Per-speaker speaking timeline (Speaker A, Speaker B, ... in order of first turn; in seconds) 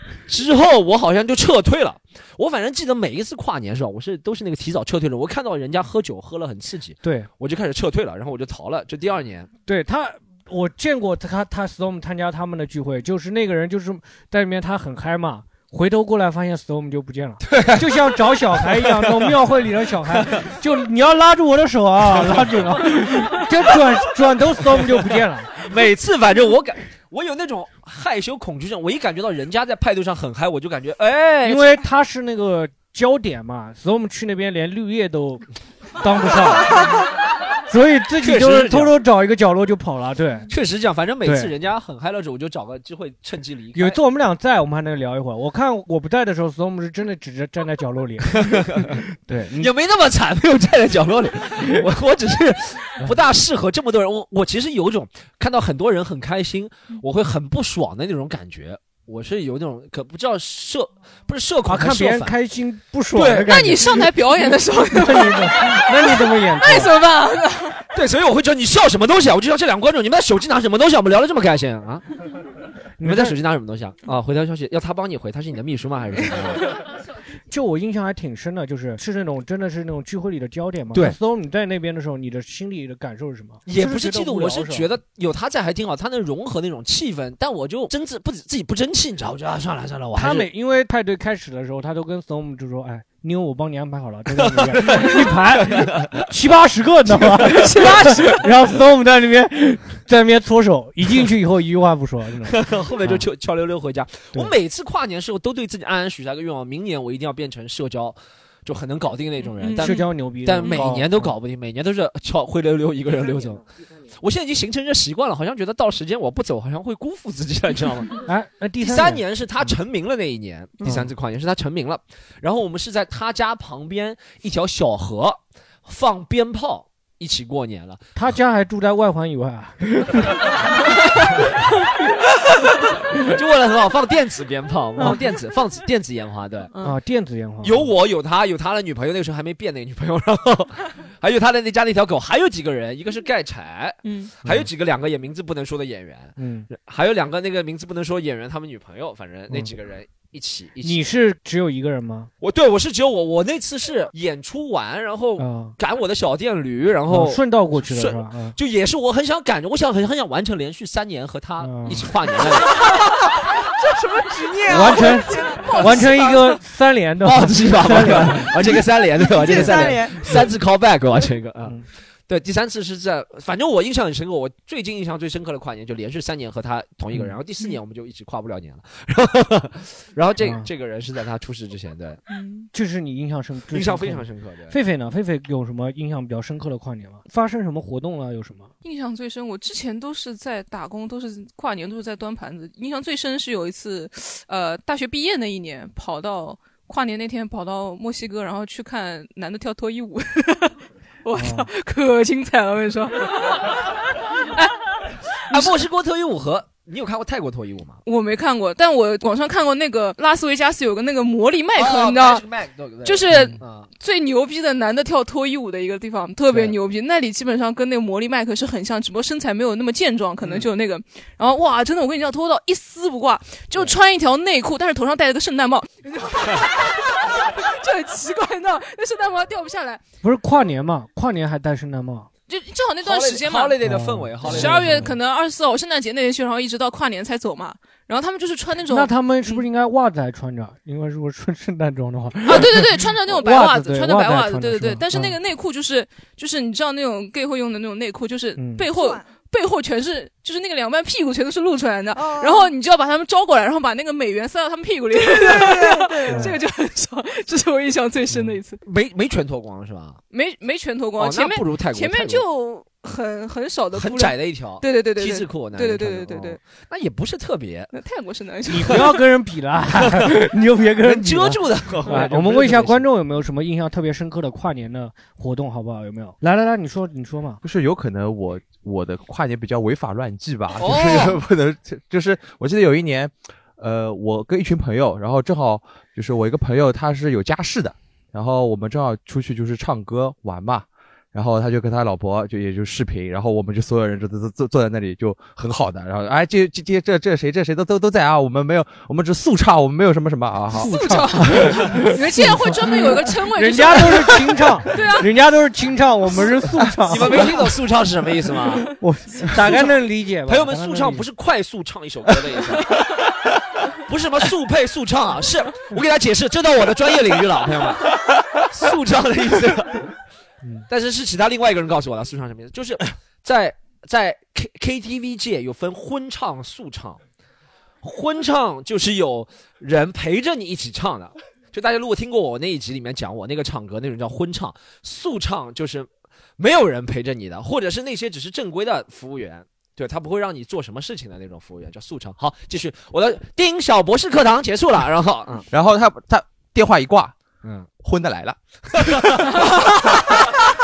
Speaker A: 0.3-9.5, 17.4-19.4, 20.1-20.5, 22.2-23.8, 24.7-25.0, 25.6-31.8, 38.2-39.0, 40.5-44.0, 48.3-49.0, 49.6-62.4, 63.1-63.6, 67.9-72.1, 73.0-76.7, 83.7-90.5, 94.3-96.2, 97.6-97.9, 102.5-118.2, 118.8-128.0, 133.2-136.7, 137.6-151.1, 152.4-162.7, 167.2-182.2, 183.7-184.8, 205.5-208.0, 211.8-213.9, 220.4-220.7, 233.0-235.1, 258.8-260.2, 261.2-262.4, 263.9-267.9, 271.0-273.1, 280.8-281.4, 307.1-308.9, 309.6-309.9, 310.4-313.1, 314.1-320.1, 320.9-327.2, 328.0-345.7, 347.6-347.9, 348.9-350.0
Speaker B: 7.0-7.3, 9.7-25.6, 31.4-35.5, 36.0-37.0, 37.7-40.5, 41.2-41.5, 43.8-49.7, 61.7-64.1, 64.9-66.9, 73.0-73.4, 77.5-84.9, 90.2-103.2, 109.8-111.4, 118.2-119.8, 128.2-130.3, 136.8-137.9, 146.4-146.7, 150.8-152.3, 155.4-155.8, 157.1-158.6, 161.6-162.1, 164.7-168.8, 169.6-170.4, 180.4-180.7, 182.7-188.7, 201.3-201.7, 230.2-232.3, 233.8-235.1, 238.9-245.4, 248.6-248.9, 256.3-256.6, 258.3-258.6, 268.7-277.6, 300.7-307.6, 309.0-311.3
Speaker C: 63.4-67.8, 97.5-98.5, 109.5-110.8, 144.0-144.3, 165.3-166.4, 188.8-203.8, 204.5-204.8, 208.1-212.4, 213.0-230.0, 232.5-233.8, 234.4-239.7, 242.4-258.8, 260.3-266.6, 267.9-269.1, 300.8-305.3
Speaker D: 163.8-166.4, 169.2-170.2, 248.9-249.3, 252.2-252.7, 255.1-256.6
Speaker E: 277.6-300.9, 345.7-347.4, 348.0-350.4